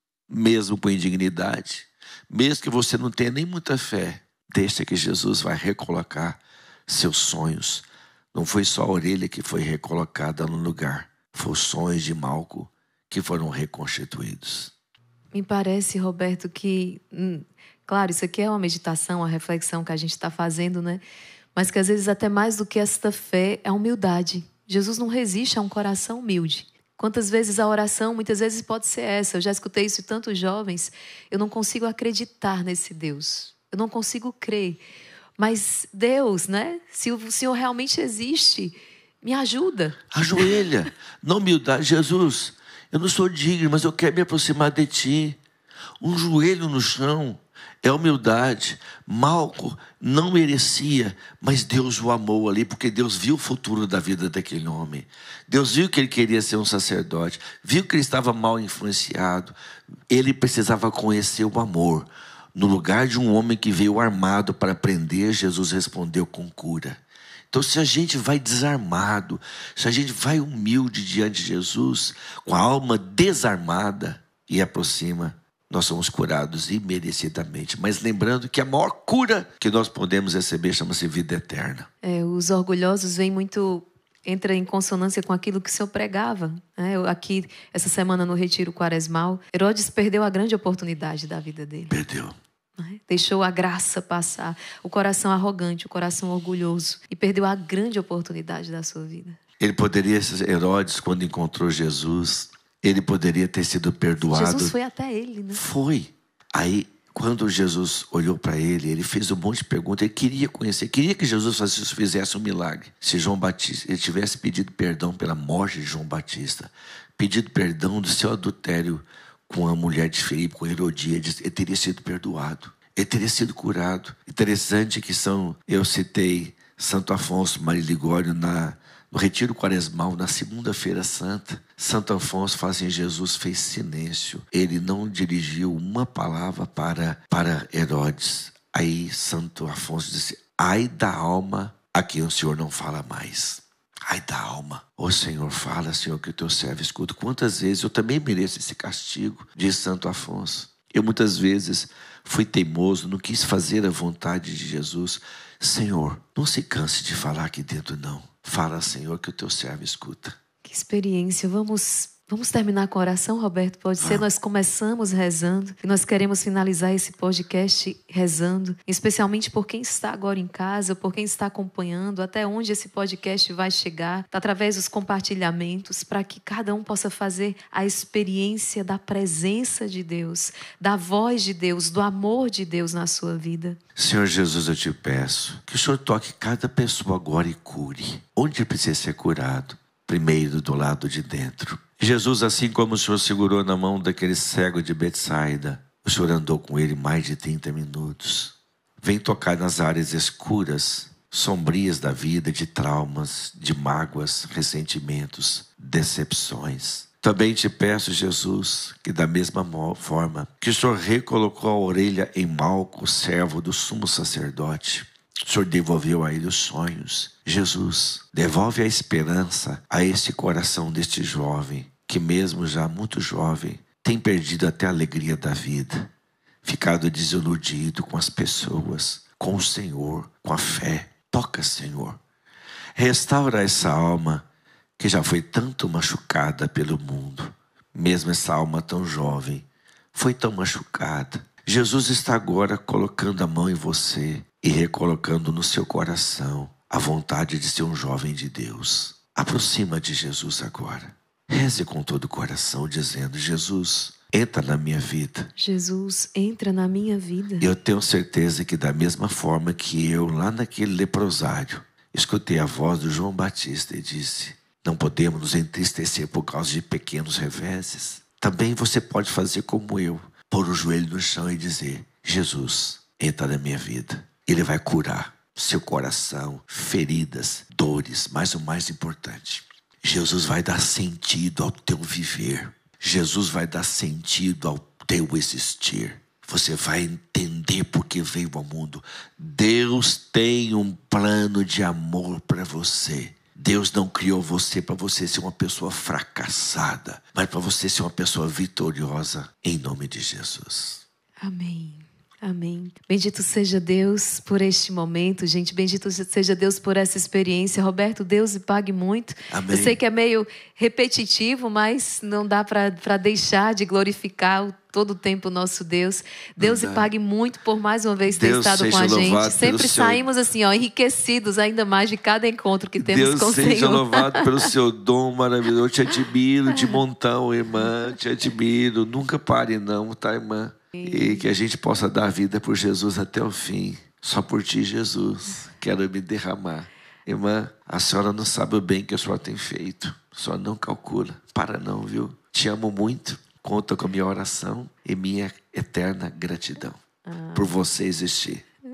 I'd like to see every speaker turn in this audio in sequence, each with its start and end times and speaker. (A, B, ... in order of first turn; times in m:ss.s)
0:00.3-0:14.7 A
0:15.3-0:21.0 B
0:21.5-0:34.8 B
0:35.4-0:40.6 B
0:40.1-0:45.4 A
0:46.0-0:59.5 A
1:00.1-1:21.9 A
1:22.0-1:31.9 B
1:31.9-1:32.4 A
1:32.8-1:39.4 B
1:39.6-1:44.7 A
1:44.3-1:45.6 B
1:45.5-2:40.4 A
2:40.6-3:03.8 B
2:44.0-2:44.2 A
3:04.0-3:46.1 A
3:46.6-3:52.2 A
3:53.0-3:54.4 A
3:55.0-4:15.5 A
4:15.6-4:17.7 B
4:17.6-5:01.0 A
5:01.4-5:24.7 B
5:09.5-5:10.0 A
5:16.6-5:17.1 A
5:18.3-5:20.3 A
5:23.0-5:47.0 A
5:30.9-5:31.4 B
5:47.2-5:47.7 B
5:47.5-5:48.6 A